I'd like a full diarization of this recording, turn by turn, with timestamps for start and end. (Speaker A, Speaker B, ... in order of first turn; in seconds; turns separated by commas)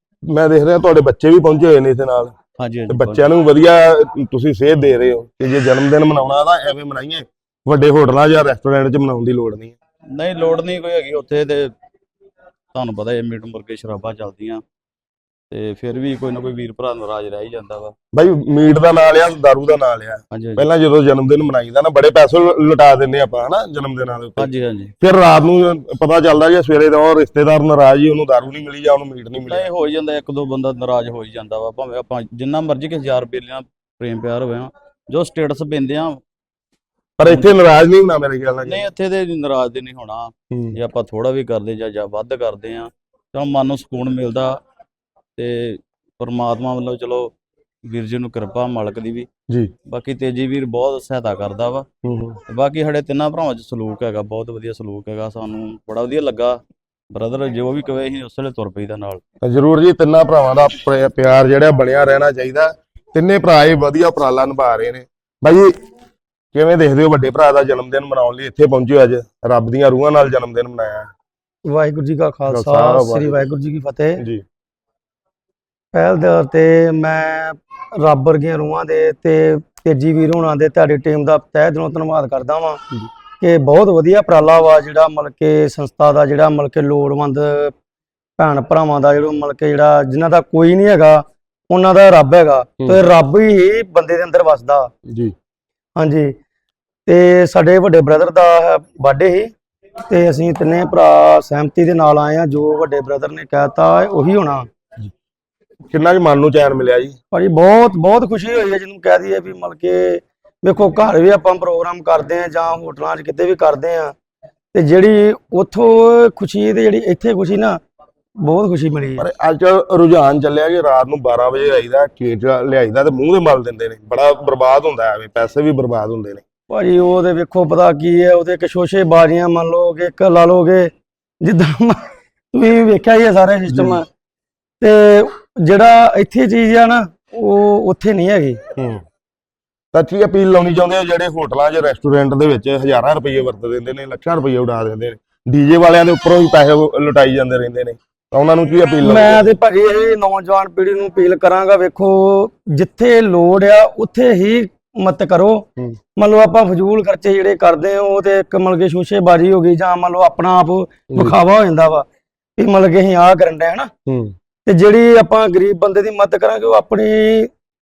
Speaker A: 0.3-2.3, Speaker B: 2.6-3.3, Speaker A: 2.9-9.8, Speaker B: 10.1-11.7, Speaker B: 12.7-14.6, Speaker B: 15.5-17.9, Speaker A: 18.1-24.5, Speaker B: 20.3-20.7, Speaker B: 24.4-24.9, Speaker A: 25.0-29.7, Speaker B: 29.4-36.2, Speaker A: 37.2-38.9, Speaker B: 37.3-37.6, Speaker B: 38.7-44.6, Speaker A: 40.5-40.8, Speaker B: 45.4-47.3, Speaker B: 47.9-49.3, Speaker B: 49.9-51.9, Speaker A: 52.0-52.4, Speaker B: 52.5-56.6, Speaker B: 57.1-59.2, Speaker A: 59.4-65.7, Speaker A: 66.5-71.1, Speaker C: 71.7-74.2, Speaker A: 72.5-73.5, Speaker A: 74.2-74.4, Speaker C: 75.9-82.8, Speaker C: 83.4-87.7, Speaker C: 88.4-94.9, Speaker A: 92.8-93.0, Speaker A: 95.1-95.3, Speaker C: 96.0-96.3, Speaker C: 97.1-99.5, Speaker C: 100.1-104.7, Speaker A: 105.9-107.2, Speaker C: 107.3-114.2, Speaker C: 114.7-117.8, Speaker C: 118.4-119.2, Speaker A: 119.2-126.4, Speaker C: 126.7-132.0, Speaker C: 132.5-134.0, Speaker A: 133.7-134.0, Speaker C: 134.8-138.6, Speaker A: 138.8-139.0, Speaker A: 139.9-149.6, Speaker C: 149.0-155.7, Speaker C: 156.2-162.1, Speaker A: 161.1-161.4, Speaker C: 162.6-163.9, Speaker A: 164.1-164.3, Speaker C: 164.7-167.5